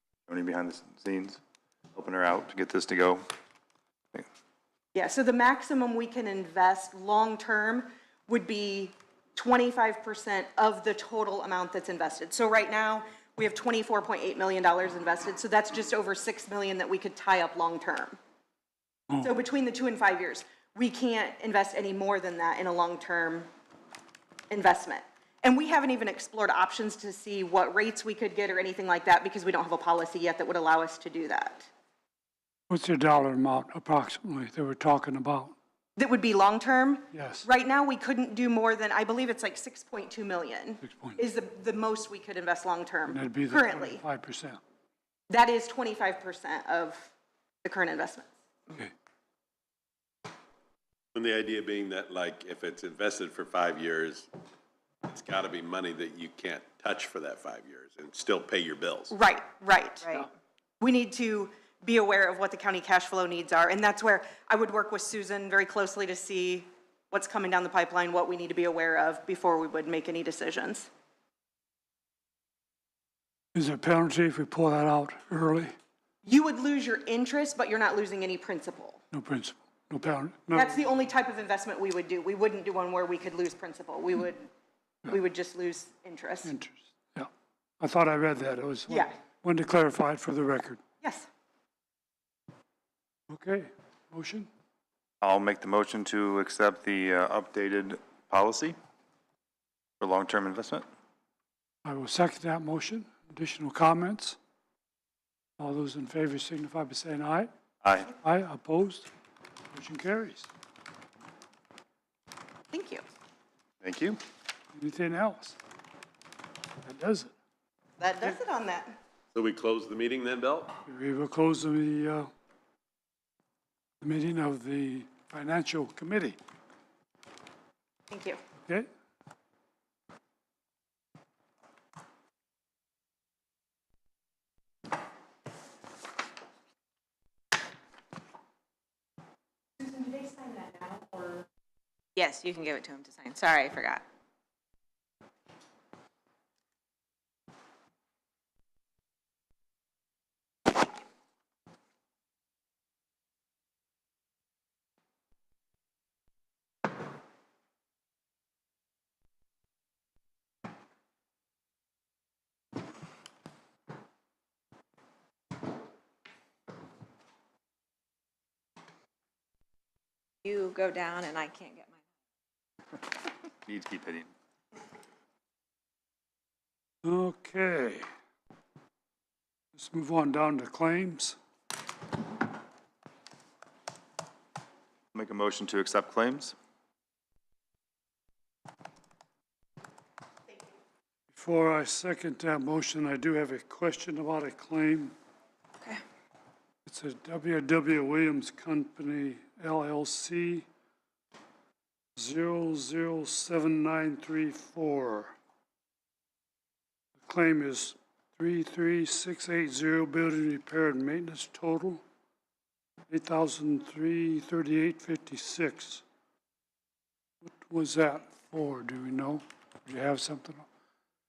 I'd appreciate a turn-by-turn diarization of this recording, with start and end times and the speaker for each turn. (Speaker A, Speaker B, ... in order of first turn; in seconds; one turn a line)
Speaker A: 0.3-1.4
Speaker A: 1.9-3.2
Speaker B: 4.9-18.2
Speaker B: 19.2-23.5
Speaker B: 24.5-31.7
Speaker C: 32.7-35.5
Speaker B: 36.0-44.0
Speaker C: 37.1-37.5
Speaker C: 40.8-41.2
Speaker C: 43.1-44.6
Speaker B: 45.3-47.1
Speaker B: 47.6-48.3
Speaker D: 51.1-54.3
Speaker D: 55.1-59.1
Speaker B: 59.1-60.3
Speaker E: 60.0-60.3
Speaker B: 60.8-70.9
Speaker C: 73.5-75.7
Speaker B: 76.2-79.0
Speaker C: 79.1-80.8
Speaker B: 80.5-84.5
Speaker B: 85.1-86.5
Speaker C: 86.4-90.8
Speaker B: 88.9-89.1
Speaker B: 91.0-91.3
Speaker C: 93.3-94.5
Speaker A: 95.2-98.8
Speaker A: 100.0-100.8
Speaker C: 101.8-104.4
Speaker C: 105.6-107.5
Speaker A: 107.8-108.1
Speaker C: 108.2-109.1
Speaker C: 109.7-110.5
Speaker B: 112.7-113.0
Speaker A: 113.8-114.2
Speaker C: 114.7-115.5
Speaker C: 116.8-117.3
Speaker B: 118.0-119.0
Speaker D: 119.3-120.7
Speaker C: 120.8-122.3
Speaker C: 124.0-126.4
Speaker B: 128.1-128.4
Speaker B: 139.8-141.5
Speaker E: 142.2-144.0
Speaker E: 170.4-172.0
Speaker A: 173.6-174.3
Speaker C: 177.0-178.1
Speaker C: 179.7-181.4
Speaker A: 185.1-186.5
Speaker C: 191.3-195.1
Speaker C: 196.8-200.7
Speaker C: 202.2-205.3
Speaker C: 207.2-212.0
Speaker C: 213.1-216.0
Speaker C: 217.4-220.7